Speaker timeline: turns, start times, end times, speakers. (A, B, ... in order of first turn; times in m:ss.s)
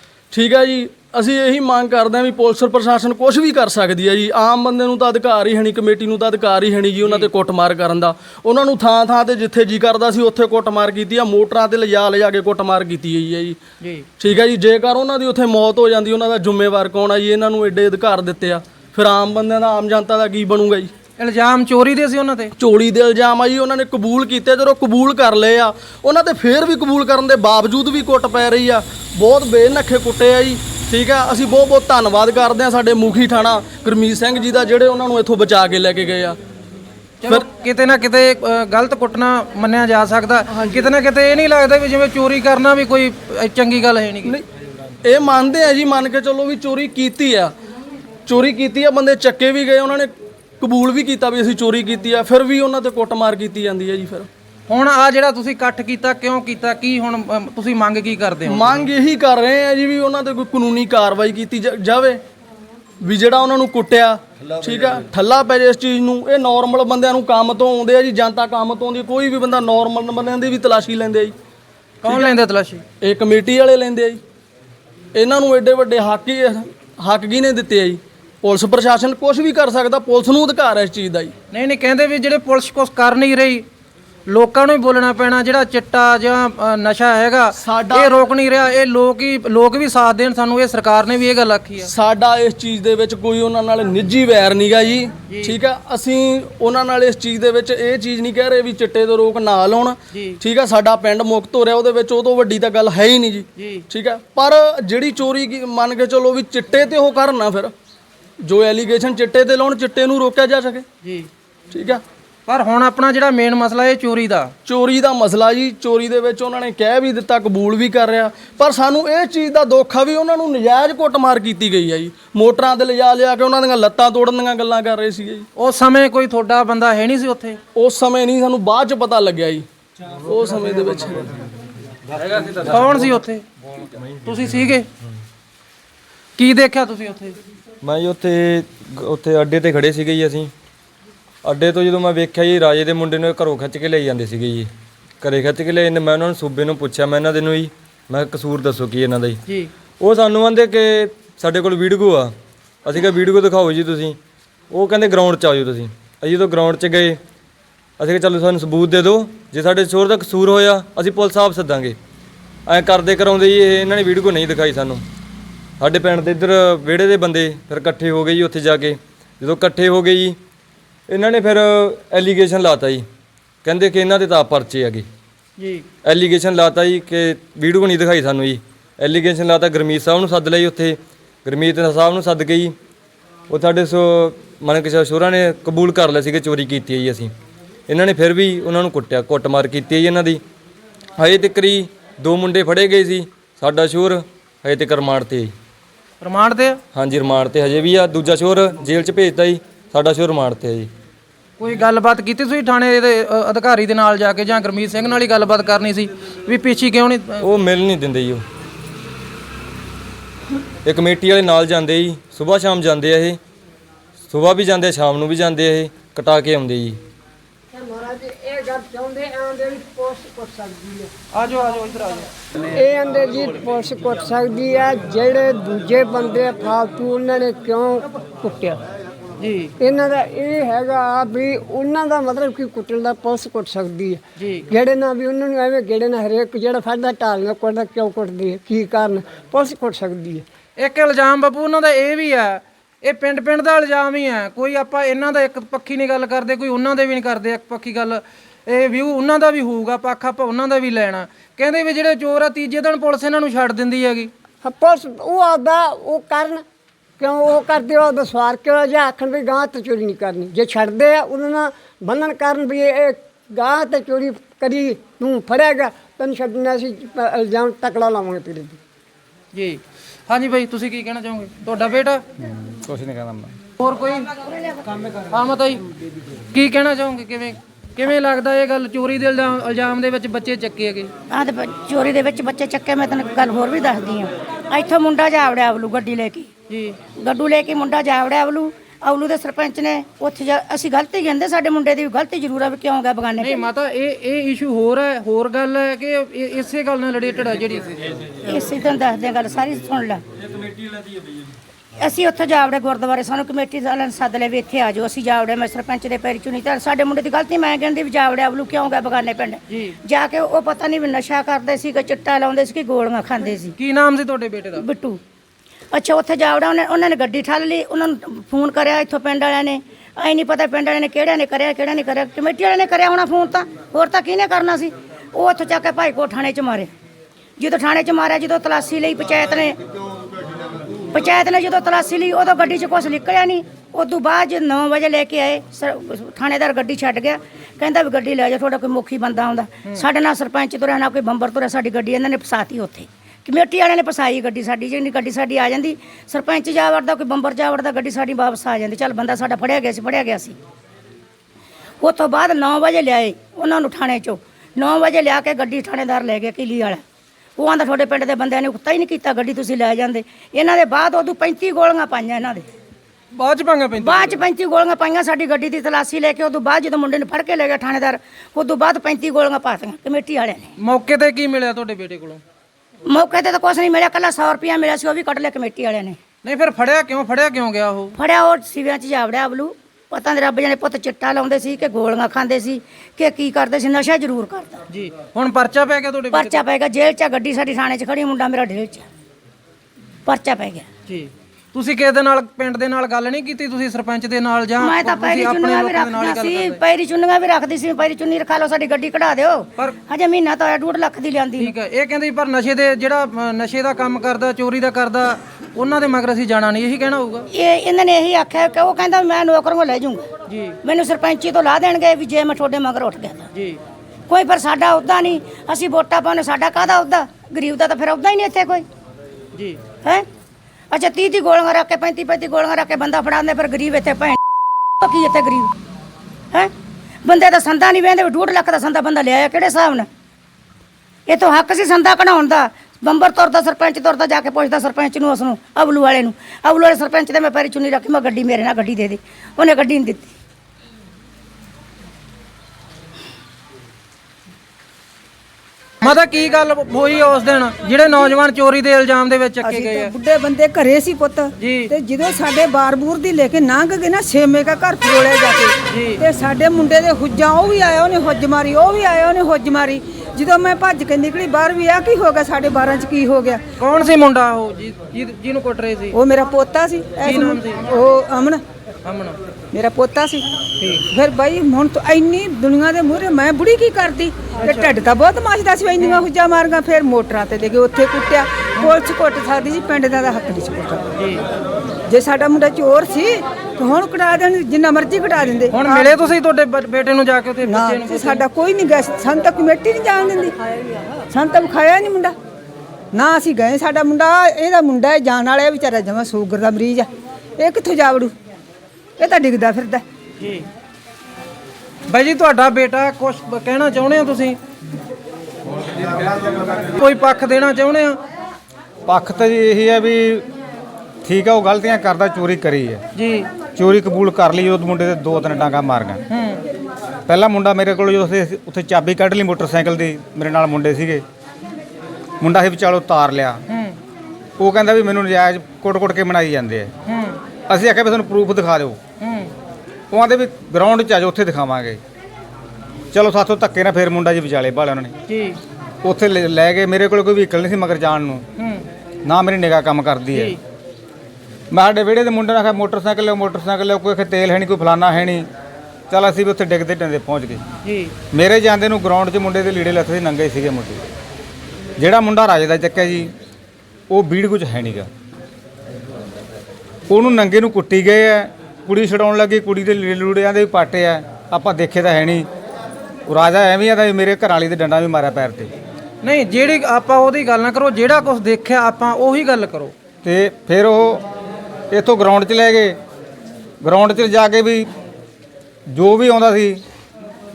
0:00.3-0:13.6 A
0:13.8-0:14.1 B
0:14.2-0:20.9 A
0:21.2-0:22.5 B
0:22.6-0:36.4 A
0:37.2-0:44.3 B
0:40.5-0:40.9 A
0:45.0-0:47.5 A
0:48.3-0:54.3 A
0:54.7-0:58.6 B
0:58.5-1:02.2 A
1:03.0-1:11.4 A
1:12.0-1:12.8 B
1:12.1-1:12.3 A
1:13.0-1:14.2 A
1:15.2-1:21.3 A
1:21.5-1:23.6 B
1:24.3-1:31.9 B
1:27.5-1:28.2 A
1:31.8-1:47.7 A
1:35.3-1:35.5 B
1:40.1-1:40.4 B
1:43.6-1:43.8 B
1:48.4-1:50.9 A
1:51.0-1:51.3 B
1:51.7-1:52.0 A
1:52.5-1:54.5 B
1:54.7-2:05.5 A
2:05.6-2:07.6 B
2:07.8-2:09.6 A
2:10.2-2:11.3 A
2:12.2-2:13.1 C
2:12.7-2:13.4 B
2:14.3-2:14.8 B
2:16.4-2:17.4 B
2:17.8-2:20.5 C
2:21.4-2:24.7 C
2:25.2-2:29.4 C
2:30.0-2:32.3 C
2:32.8-2:34.2 C
2:34.7-2:37.2 C
2:38.0-2:42.0 C
2:42.7-2:45.0 C
2:45.8-2:50.4 C
2:51.1-2:53.0 C
2:53.6-2:55.1 C
2:56.0-3:02.8 C
3:03.5-3:07.3 C
3:07.9-3:10.4 C
3:11.2-3:15.5 C
3:16.2-3:16.8 B
3:16.9-3:20.9 C
3:21.6-3:27.5 B
3:27.4-3:28.4 C
3:30.8-3:33.4 C
3:34.3-3:37.0 C
3:37.7-3:41.1 D
3:41.3-3:42.3 B
3:42.7-3:48.8 D
3:49.4-3:49.7 B
3:49.8-4:00.4 D
3:54.4-3:54.6 B
4:00.8-4:14.3 B
4:14.6-4:16.6 D
4:17.2-4:28.8 D
4:29.5-4:32.2 B
4:32.4-4:33.6 E
4:33.8-4:34.3 B
4:35.3-4:35.8 B
4:36.5-4:41.1 B
4:41.3-4:46.5 F
4:46.7-4:47.0 B
4:47.2-4:53.6 F
4:53.4-4:58.1 B
4:58.4-5:00.2 F
5:02.0-5:13.7 F
5:09.7-5:10.0 B
5:13.8-5:14.8 B
5:14.8-5:15.2 F
5:15.9-5:26.9 F
5:27.6-5:29.8 F
5:31.1-5:50.6 F
5:52.0-5:57.0 F
5:57.6-6:02.7 F
6:03.4-6:04.4 B
6:04.0-6:10.7 F
6:10.8-6:12.4 B
6:13.1-6:16.2 F
6:16.4-6:18.1 B
6:18.2-6:24.8 F
6:24.9-6:26.6 B
6:26.3-6:29.0 F
6:30.3-6:30.8 F
6:31.1-6:36.8 B
6:34.8-6:41.7 F
6:41.6-6:47.5 B
6:47.5-6:50.3 F
6:50.5-6:50.8 B
6:50.8-6:53.5 F
6:53.5-6:53.8 B
6:54.3-6:58.9 F
7:00.9-7:04.4 F
7:05.0-7:05.7 F
7:07.2-7:10.1 F
7:11.3-7:20.3 F
7:26.0-7:30.1 B
7:29.6-7:43.6 G
7:31.6-7:31.9 B
7:35.9-7:36.2 B
7:43.8-7:46.2 B
7:46.1-7:48.6 G
7:47.2-7:47.8 B
7:49.0-7:49.4 B
7:49.7-7:50.4 G
7:51.1-8:01.0 G
7:54.6-7:54.9 B
7:56.0-7:56.3 B
8:02.1-8:06.2 G
8:05.7-8:08.4 B
8:07.6-8:10.6 G
8:11.3-8:12.3 G
8:13.1-8:18.3 G
8:19.2-8:20.0 G
8:20.4-8:20.7 B
8:22.1-8:24.6 B
8:27.0-8:28.2 B
8:29.1-8:30.4 E
8:31.2-8:33.0 E
8:33.2-8:33.5 B
8:33.8-8:36.2 E
8:36.3-8:36.6 B
8:37.3-8:41.2 E
8:42.4-8:43.6 E
8:43.7-8:44.0 B
8:44.6-8:46.9 E
8:47.1-8:47.4 B
8:47.7-8:49.0 E
8:49.2-8:49.5 B
8:50.1-8:52.0 E
8:53.1-8:55.1 E
8:55.3-8:55.6 B
8:56.0-8:58.4 E
8:58.6-8:58.8 B
8:59.2-9:00.6 E
9:00.3-9:00.6 B
9:01.7-9:05.5 E
9:06.1-9:07.6 E
9:07.8-9:08.1 B
9:08.3-9:11.0 E
9:12.0-9:13.3 E
9:14.1-9:15.1 E
9:17.1-9:22.4 E
9:23.3-9:25.7 E
9:26.2-9:29.9 B
9:30.2-9:31.2 E
9:31.9-9:33.0 E
9:33.8-9:34.9 E
9:35.9-9:36.8 E